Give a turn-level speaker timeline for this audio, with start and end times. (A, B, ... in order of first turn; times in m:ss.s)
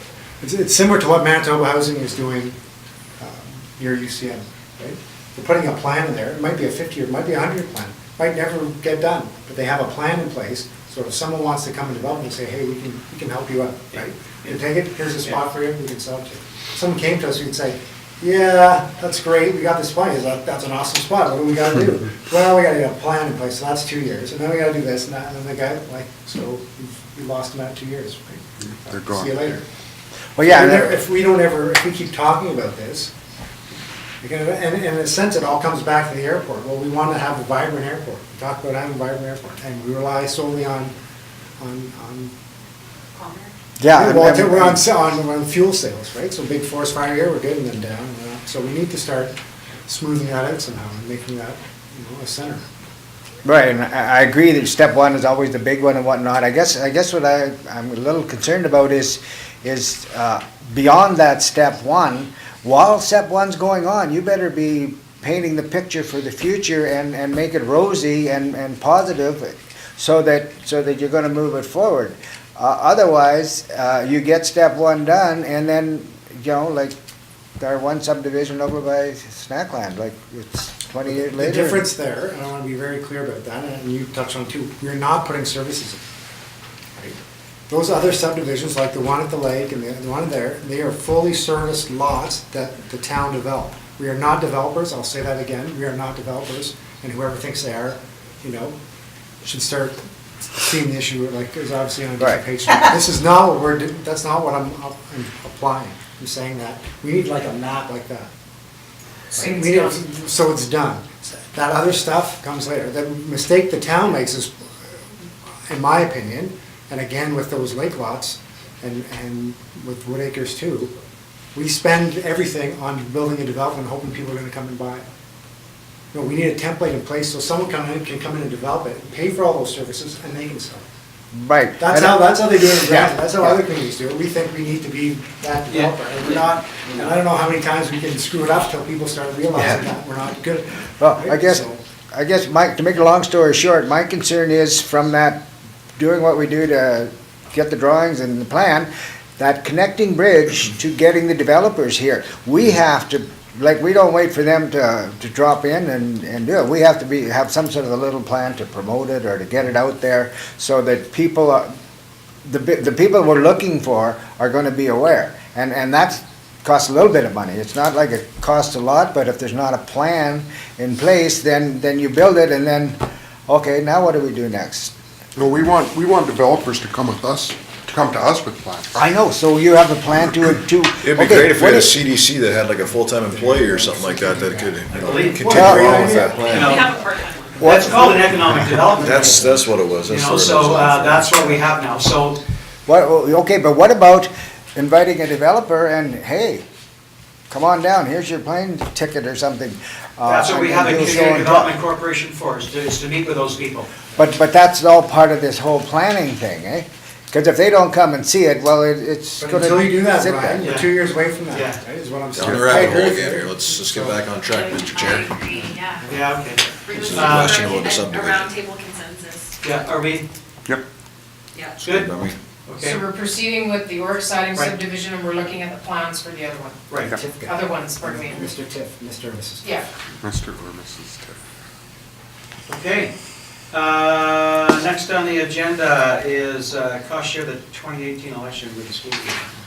0:00.4-0:02.6 A
0:03.2-0:29.6 A
0:13.9-0:14.6 B
0:28.9-0:29.4 C
0:30.4-0:30.9 D
0:30.4-0:33.1 A
0:34.2-0:40.9 A
0:41.6-0:42.3 A
0:43.1-0:43.5 E
0:43.8-0:44.9 D
0:43.9-0:52.6 A
0:53.4-1:17.0 D
1:17.6-1:21.8 D
1:21.1-1:26.0 A
1:27.7-1:38.8 A
1:39.4-1:48.3 A
1:49.3-1:50.0 F
1:49.3-1:54.9 A
1:55.7-2:00.9 A
2:01.5-2:05.0 A
2:06.1-2:10.8 A
2:11.3-2:13.6 D
2:11.8-2:21.8 A
2:15.7-2:16.4 B
2:19.6-2:19.8 D
2:21.0-2:25.4 D
2:26.0-2:41.7 D
2:42.4-2:54.9 D
2:55.3-2:59.0 C
2:58.9-3:02.0 D
3:01.0-3:06.8 G
3:03.2-3:06.7 A
3:04.9-3:05.5 B
3:05.5-3:06.1 D
3:06.5-3:07.8 E
3:06.5-3:07.0 B
3:07.6-3:12.4 B
3:07.6-3:08.2 D
3:08.8-3:11.6 G
3:12.8-3:16.6 D
3:17.5-3:21.8 D
3:20.2-3:23.9 B
3:24.2-3:30.6 D
3:29.4-3:34.2 A
3:30.6-3:30.9 B
3:31.5-3:31.8 B
3:32.3-3:35.4 G
3:34.5-3:36.3 E
3:36.1-3:37.6 B
3:36.8-3:39.6 E
3:36.9-3:38.5 G
3:39.6-3:40.3 B
3:41.5-3:41.8 E
3:41.8-3:42.1 B
3:41.8-3:42.4 G
3:42.6-3:43.0 B
3:42.8-3:46.8 F
3:44.5-3:44.8 B
3:47.1-3:49.7 A
3:47.4-3:48.5 F
3:50.2-3:51.4 C
3:52.7-3:53.1 B
3:53.7-3:59.5 B